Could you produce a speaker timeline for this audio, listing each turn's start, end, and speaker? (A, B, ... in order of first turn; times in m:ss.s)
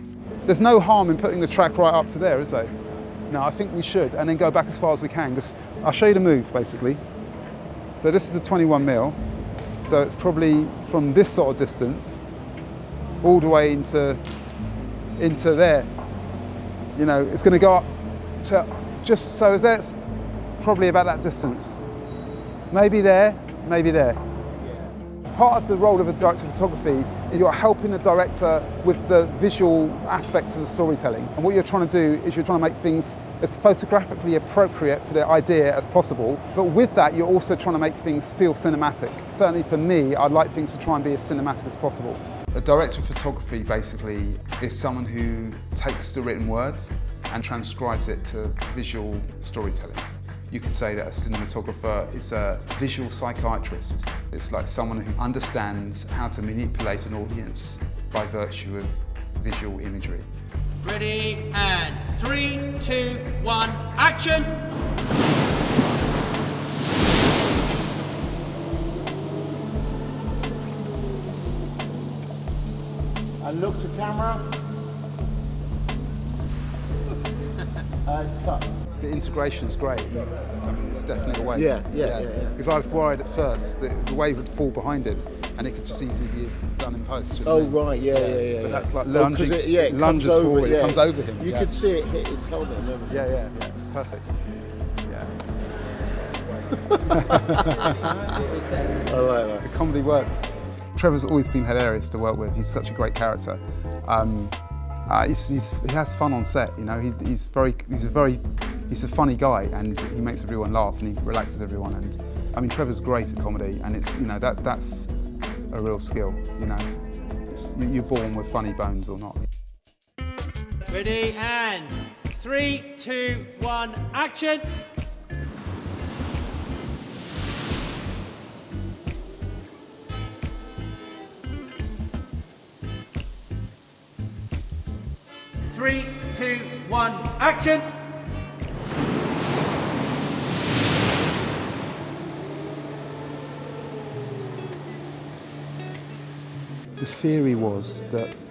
0:00.4-0:02.7 A
0:03.3-0:07.0 A
0:08.0-0:09.2 A
0:09.8-0:12.2 A
0:13.2-0:14.2 A
0:15.2-0:15.9 A
0:16.9-0:17.9 A
0:18.4-0:20.0 A
0:20.6-0:21.8 A
0:22.7-0:24.2 A
0:24.6-0:24.9 B
0:25.3-1:00.2 A
1:00.8-1:04.6 C
1:13.4-1:14.6 B
1:18.0-1:18.7 B
1:19.0-1:31.7 A
1:21.5-1:22.6 B
1:27.4-1:33.2 B
1:33.1-1:34.3 A
1:35.0-1:35.3 A
1:36.9-1:38.1 A
1:37.1-1:38.1 B
1:38.8-1:39.6 B
1:39.6-1:55.1 A
1:55.7-1:56.9 A
1:57.5-1:59.5 A
2:00.9-2:04.6 C
2:15.7-2:17.8 C
2:27.0-2:28.3 A